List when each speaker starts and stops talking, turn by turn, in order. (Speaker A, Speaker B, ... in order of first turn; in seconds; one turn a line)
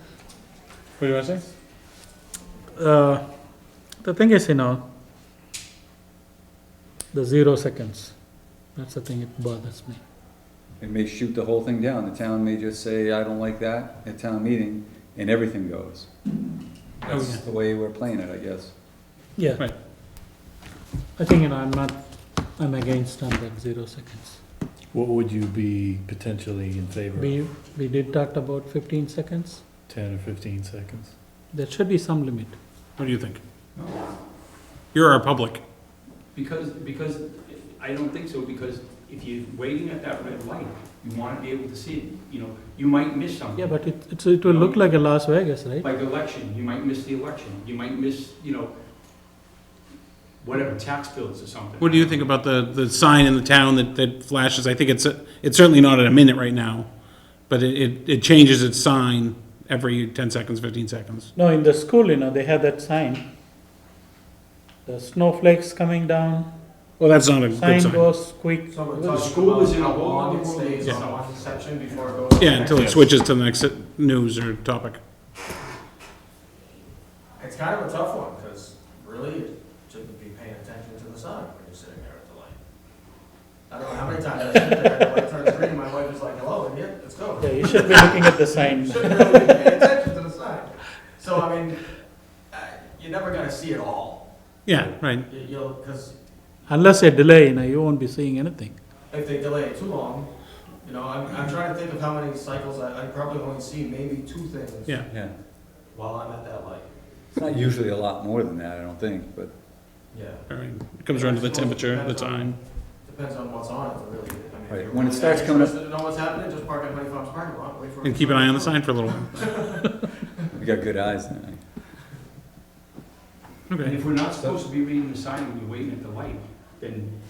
Speaker A: 1.0-1.4
Speaker B: 2.8-3.2
Speaker B: 4.0-4.8
Speaker B: 7.1-8.1
Speaker B: 8.8-10.0
Speaker C: 10.8-16.1
Speaker C: 17.0-18.7
Speaker A: 17.1-17.4
Speaker B: 19.4-19.7
Speaker B: 21.2-22.0
Speaker B: 22.6-24.4
Speaker D: 24.9-27.4
Speaker B: 27.1-29.6
Speaker D: 29.9-31.1
Speaker B: 31.5-32.5
Speaker A: 33.0-33.4
Speaker E: 33.8-34.0
Speaker A: 34.9-35.6
Speaker E: 36.3-43.8
Speaker B: 43.6-45.9
Speaker E: 44.4-45.0
Speaker E: 45.8-48.7
Speaker E: 50.4-52.2
Speaker A: 51.8-56.9
Speaker A: 57.5-61.3
Speaker B: 61.3-63.2
Speaker B: 64.8-66.5
Speaker A: 67.0-68.0
Speaker B: 67.5-69.3
Speaker F: 68.7-73.0
Speaker E: 69.1-72.1
Speaker A: 72.4-75.0
Speaker D: 72.6-73.1
Speaker F: 77.4-82.6
Speaker F: 83.7-91.9
Speaker B: 87.4-89.7
Speaker F: 92.5-94.2
Speaker A: 94.7-95.3
Speaker F: 94.8-96.1
Speaker B: 96.7-98.8
Speaker F: 99.1-100.3
Speaker F: 100.8-105.0
Speaker F: 105.9-106.9
Speaker C: 107.3-109.5
Speaker F: 110.1-110.5
Speaker A: 110.5-112.6
Speaker F: 111.1-112.5
Speaker F: 113.0-120.4
Speaker C: 114.7-115.8
Speaker A: 118.0-119.5
Speaker C: 120.5-121.6
Speaker A: 123.7-124.0
Speaker E: 123.8-127.1